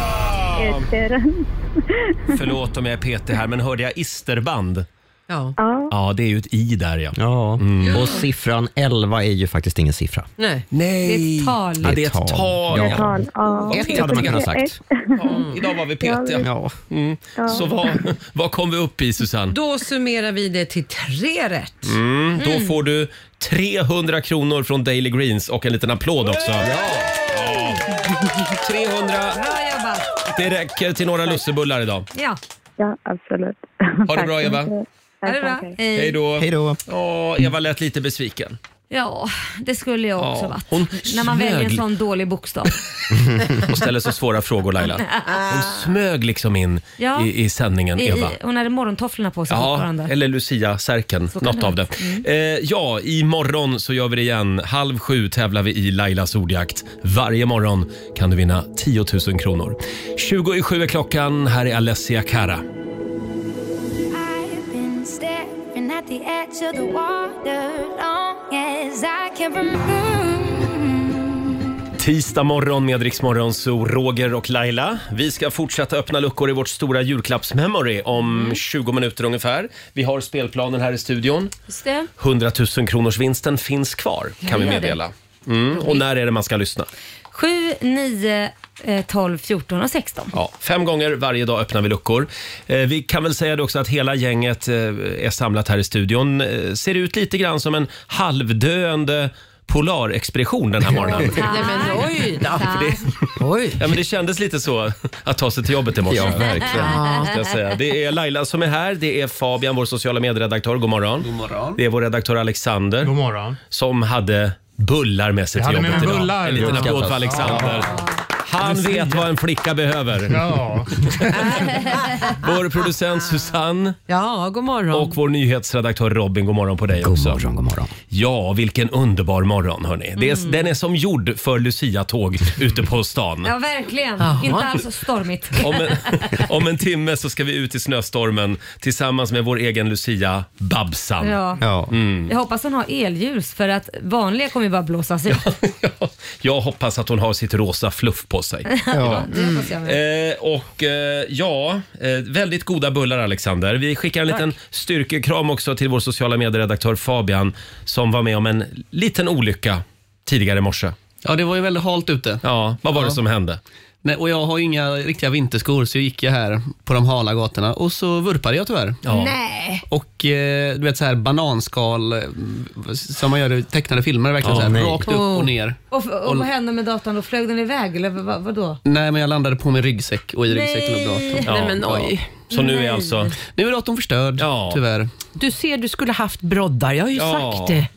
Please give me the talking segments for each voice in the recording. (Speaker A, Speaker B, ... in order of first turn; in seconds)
Speaker A: 0.3-0.9, 2.3-4.9, 5.9-8.1, 10.7-13.1, 13.7-14.5, 15.2-19.6, 21.8-26.7, 27.3-27.9, 28.6-29.4, 30.3-32.1, 34.1-34.7, 36.0-38.6, 40.2-41.8, 43.1-48.4, 49.5-62.6, 72.0-81.5, 82.2-86.9, 90.3-101.9, 102.6-103.1, 103.8-113.2, 113.7-120.5, 121.0-124.0, 124.9-127.4, 128.1-133.5, 135.6-141.4, 141.9-142.3, 145.3-149.3, 149.8-161.0, 162.4-163.6, 169.0-169.3, 174.4-174.7, 181.5-182.0, 182.5-183.3, 184.4-184.8, 187.2-187.8
Speaker B: 0.6-2.3, 5.6-5.9, 12.8-15.5, 16.0-16.5, 17.4-18.0, 32.8-35.7
Speaker C: 5.3-5.6, 10.4-10.7, 19.5-22.0, 101.1-102.8, 103.4-103.8, 106.7-107.3, 124.1-125.2, 130.2-130.6, 134.2-134.8, 149.3-149.6, 175.1-175.5, 181.5-182.4, 185.3-187.9
Speaker D: 7.2-10.3, 11.8-13.2, 13.7-14.8, 16.4-16.7, 26.6-27.1, 36.4-36.8, 106.1-107.0, 116.5-117.8, 127.0-127.9, 141.6-141.9, 148.9-149.3, 174.5-175.1
Speaker E: 11.0-11.9, 22.4-22.8, 29.3-30.1, 32.1-32.4, 35.2-36.2, 38.9-42.7, 45.0-45.4, 47.0-47.3, 48.0-50.1, 51.3-52.2, 81.7-82.1, 84.5-85.0, 87.3-90.3, 101.1-103.1, 133.4-136.2, 141.2-141.6, 142.3-145.4, 148.7-150.0, 169.1-169.8, 175.9-178.8, 180.5-181.5, 182.5-183.3
Speaker F: 64.1-71.3
Speaker G: 111.2-111.8, 161.2-163.2, 164.0-169.0, 169.9-176.5, 178.8-182.1, 183.4-185.1
Speaker H: 113.0-113.6, 115.5-118.0, 118.6-119.3, 120.3-121.5